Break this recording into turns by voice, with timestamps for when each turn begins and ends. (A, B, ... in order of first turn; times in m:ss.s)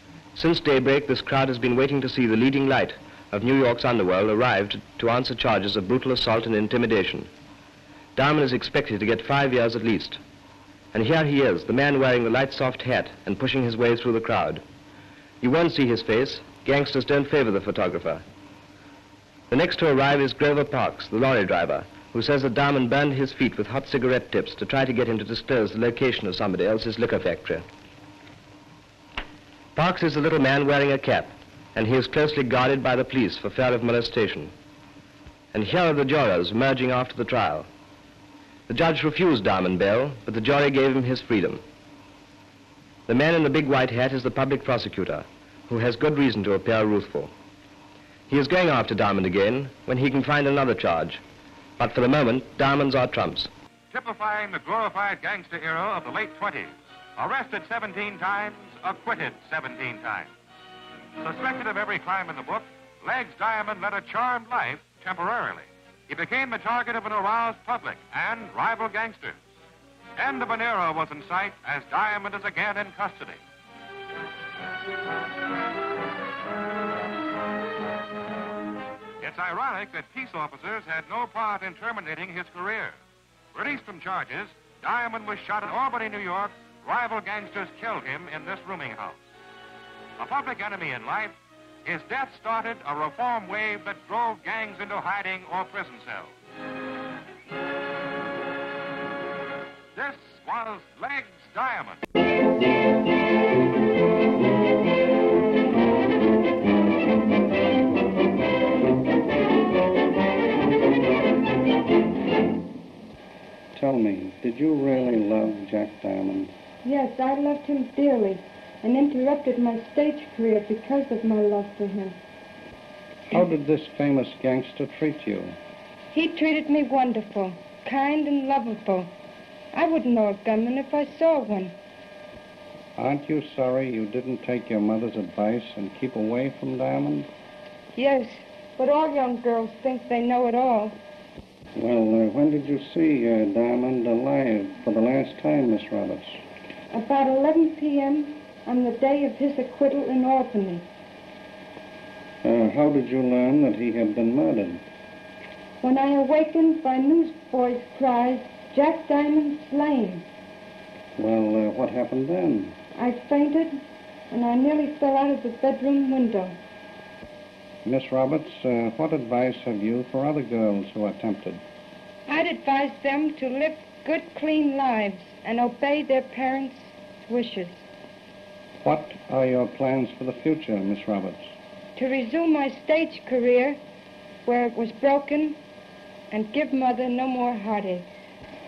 0:00.3-0:07.3 A
0:08.2-0:10.2 A
0:10.9-0:14.6 A
0:15.4-0:18.2 A
0:19.5-0:27.6 A
0:29.8-0:34.5 A
0:35.5-0:37.7 A
0:38.7-0:41.6 A
0:43.1-0:47.3 A
0:48.3-0:51.2 A
0:51.8-0:53.5 A
0:53.9-1:00.3 B
1:01.2-1:09.4 B
1:10.2-1:13.4 B
1:19.2-1:23.0 B
1:23.5-1:29.2 B
1:30.2-1:36.3 B
1:40.0-1:42.0 B
1:53.7-1:56.5 C
1:56.8-2:02.2 D
2:03.3-2:05.6 C
2:06.1-2:09.1 D
2:09.7-2:11.8 D
2:13.0-2:17.3 C
2:17.9-2:21.0 D
2:21.8-2:26.4 C
2:26.9-2:30.9 D
2:32.4-2:34.8 C
2:35.8-2:40.3 D
2:41.2-2:42.8 C
2:43.0-2:46.6 D
2:47.8-2:51.6 C
2:52.3-2:57.8 D
2:58.8-3:01.5 C
3:02.0-3:03.8 D
3:04.4-3:05.6 D
3:06.3-3:08.1 D